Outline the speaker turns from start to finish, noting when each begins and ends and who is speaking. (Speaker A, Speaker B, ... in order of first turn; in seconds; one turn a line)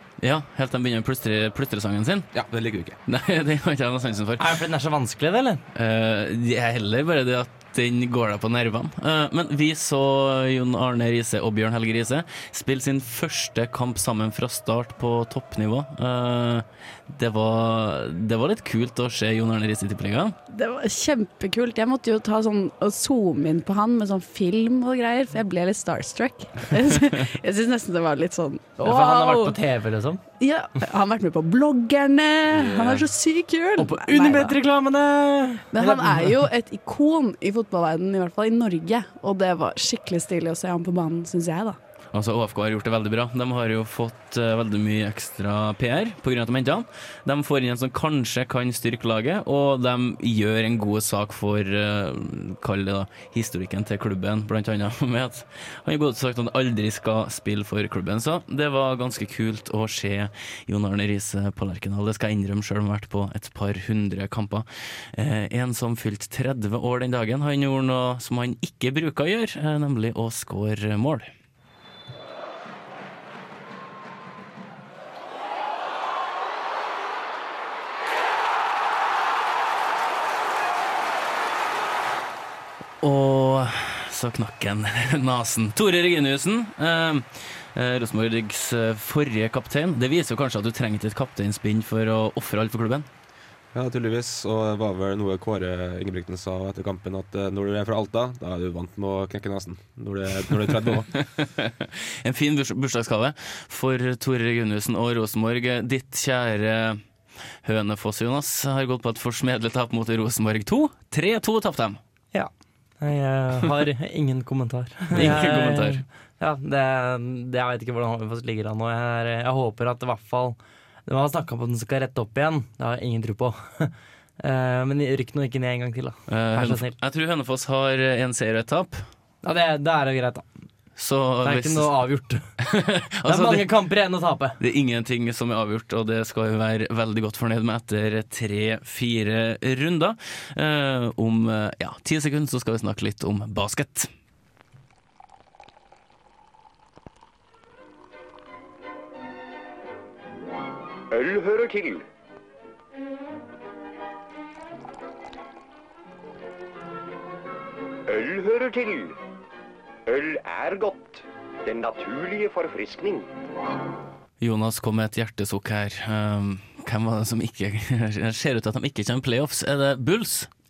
Speaker A: 0.2-2.3
Speaker B: 2.3-3.0
Speaker A: 3.1-4.6
Speaker C: 4.4-5.6
Speaker A: 5.7-20.4
Speaker D: 20.5-29.6
Speaker C: 28.8-30.2
Speaker D: 30.4-34.6
Speaker B: 32.5-33.1
Speaker C: 33.8-36.4
Speaker D: 35.7-41.8
Speaker A: 42.1-71.3
Speaker A: 83.0-93.1
Speaker B: 93.7-101.1
Speaker A: 101.1-107.0
Speaker A: 107.6-112.0
Speaker C: 112.3-126.9
Speaker A: 115.1-116.0
Speaker A: 126.3-129.1
Speaker C: 129.4-130.4
Speaker A: 131.0-132.0
Speaker C: 131.4-132.4
Speaker A: 132.6-133.7
Speaker C: 133.3-134.6
Speaker A: 134.6-144.1
Speaker E: 151.1-152.1
Speaker E: 158.1-159.2
Speaker E: 160.1-163.3
Speaker A: 164.4-170.5